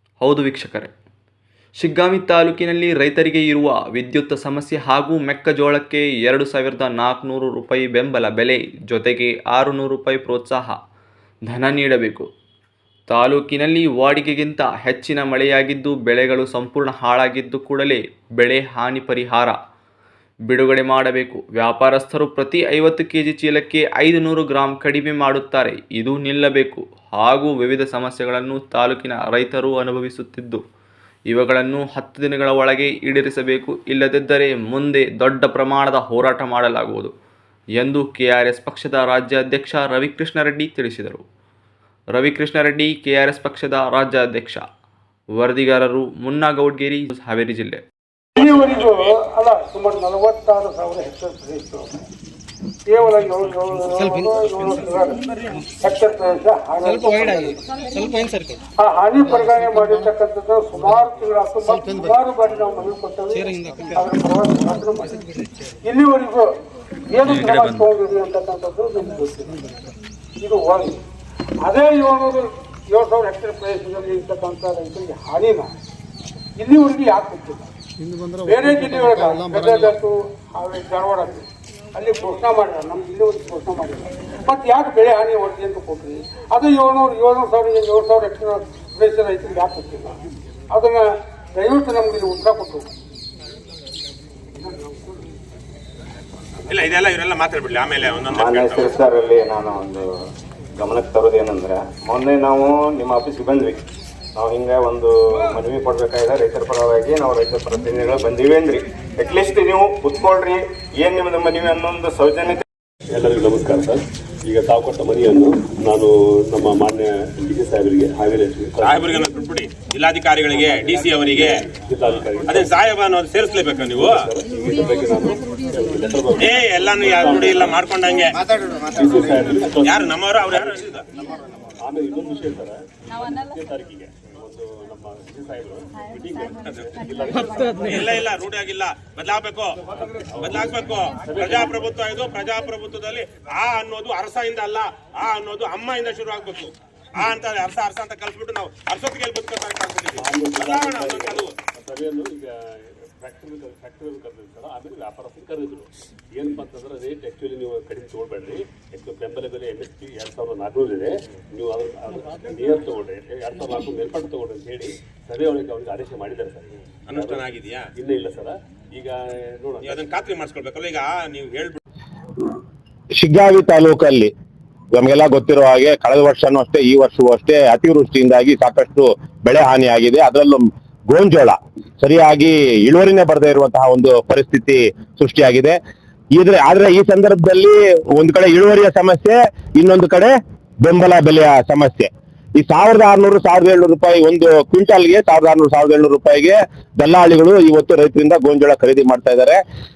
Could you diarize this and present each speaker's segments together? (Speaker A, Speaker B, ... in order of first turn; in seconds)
Speaker A: 0.2-0.9, 1.8-10.8, 11.5-12.3, 13.1-19.6, 20.5-30.6, 31.3-37.1, 37.8-41.2, 42.1-44.6, 45.4-47.8, 67.3-67.7
Speaker B: 48.4-52.0, 52.9-57.6, 58.8-65.2, 65.8-66.5, 67.1-69.6, 70.4-71.0, 71.6-75.7, 76.6-77.7, 78.4-90.2, 90.7-92.9
Speaker C: 96.7-99.0, 118.8-121.5, 122.5-124.2, 126.4-128.4, 129.8-131.0, 137.8-139.8, 140.4-151.5, 167.1-167.9, 169.8-171.8
Speaker D: 98.3-100.0, 100.8-103.8, 104.3-112.6
Speaker E: 113.1-119.1, 120.5-122.8, 123.9-127.8, 128.9-130.8, 131.8-138.2, 140.0-141.8, 150.2-167.4, 167.9-170.1
Speaker F: 173.2-174.3, 174.9-185.8, 186.3-199.6